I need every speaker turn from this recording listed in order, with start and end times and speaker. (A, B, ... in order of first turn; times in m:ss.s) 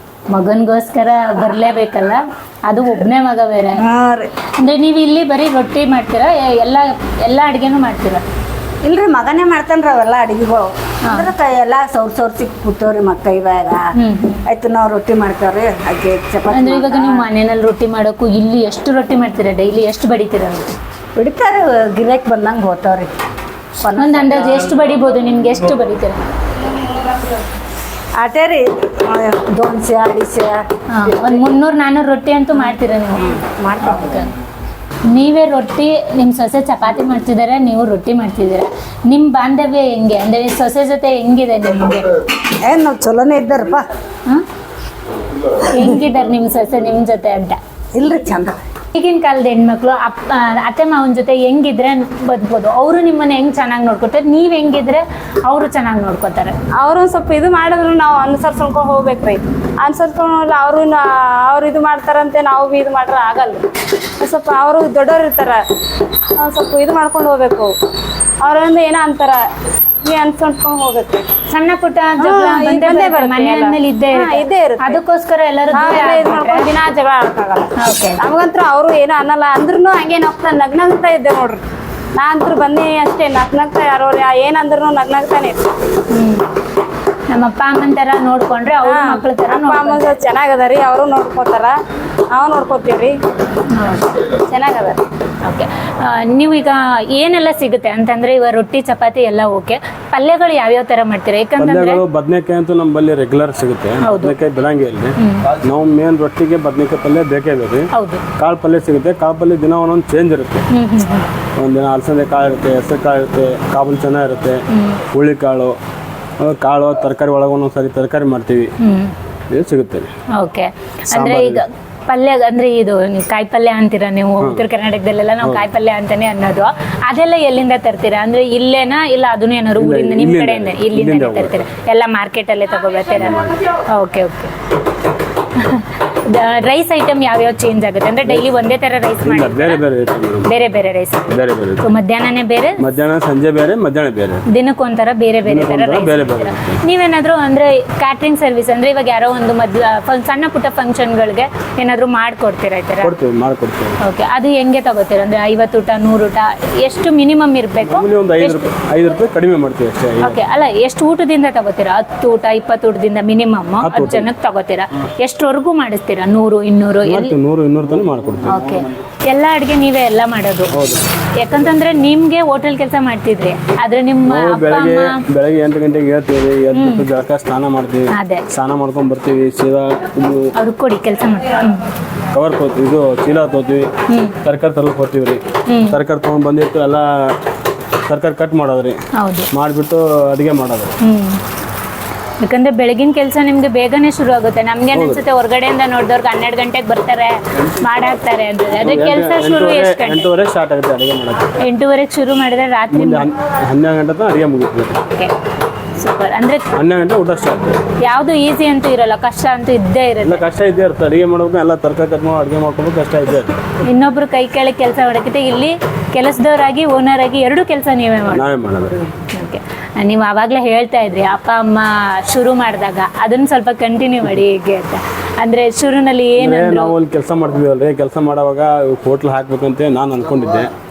0:00.3-0:03.8 A
0:03.8-0:04.3 B
0:04.6-0:08.2 A
0:08.8-0:13.9 B
0:14.0-0:14.4 A
0:14.5-0:17.2 B
0:16.5-0:20.7 A
0:21.2-0:23.1 B
0:23.8-0:24.4 B
0:23.9-0:26.3 A
0:28.2-0:30.6 B
0:30.9-0:33.4 A
0:33.2-0:34.3 B
0:35.1-0:42.1 A
0:42.6-0:43.8 B
0:45.6-0:47.6 A
0:47.9-0:48.6 B
0:48.9-0:56.5 A
0:56.8-1:03.6 C
1:04.2-1:05.6 C
1:06.4-1:07.7 C
1:08.4-1:09.4 C
1:10.0-1:11.2 C
1:11.5-1:16.7 A
1:12.2-1:15.0 C
1:15.7-1:21.6 C
1:17.8-1:18.2 A
1:22.2-1:25.6 C
1:26.1-1:26.4 A
1:27.3-1:30.2 A
1:28.8-1:31.7 C
1:32.3-1:33.1 C
1:33.7-1:34.2 A
1:34.5-1:35.0 C
1:35.4-1:42.0 A
1:41.6-1:50.6 D
1:44.0-1:44.3 A
1:45.2-1:45.5 A
1:47.9-1:48.2 A
1:50.7-1:51.3 A
1:51.6-1:55.8 D
1:54.7-1:55.0 A
1:56.4-1:58.7 D
1:58.8-1:59.1 A
1:59.5-2:00.1 D
2:00.4-2:14.5 A
2:01.1-2:01.6 D
2:09.8-2:11.5 D
2:13.2-2:13.6 D
2:15.6-2:19.8 A
2:19.2-2:20.5 D
2:20.5-2:21.3 A
2:21.3-2:21.9 D
2:21.8-2:22.8 A
2:22.8-2:24.4 D
2:24.5-2:33.1 A
2:25.4-2:26.8 D
2:33.0-2:34.0 D
2:34.0-2:38.7 A
2:37.8-2:40.4 D
2:40.2-2:47.3 A
2:43.8-2:44.3 D
2:47.0-2:48.6 D
2:48.4-2:50.7 A
2:50.7-2:51.0 D
2:51.4-2:55.2 A
2:54.3-3:00.5 D
2:56.7-2:57.0 A
2:58.1-2:58.4 A
3:00.6-3:01.8 A
3:02.3-3:03.9 D
3:04.4-3:07.3 D
3:05.7-3:06.0 A
3:08.1-3:09.0 D
3:09.2-3:09.5 A
3:09.5-3:10.9 D
3:11.0-3:11.4 A
3:12.4-3:20.3 A
3:14.9-3:15.2 D
3:18.8-3:21.5 D
3:21.6-3:23.3 A
3:22.9-3:25.0 D
3:26.0-3:26.7 A
3:26.7-3:27.8 D
3:28.0-3:30.4 A
3:30.2-3:33.6 D
3:33.8-3:38.4 A
3:38.3-3:39.0 D
3:39.3-3:46.9 A
3:46.4-3:50.7 D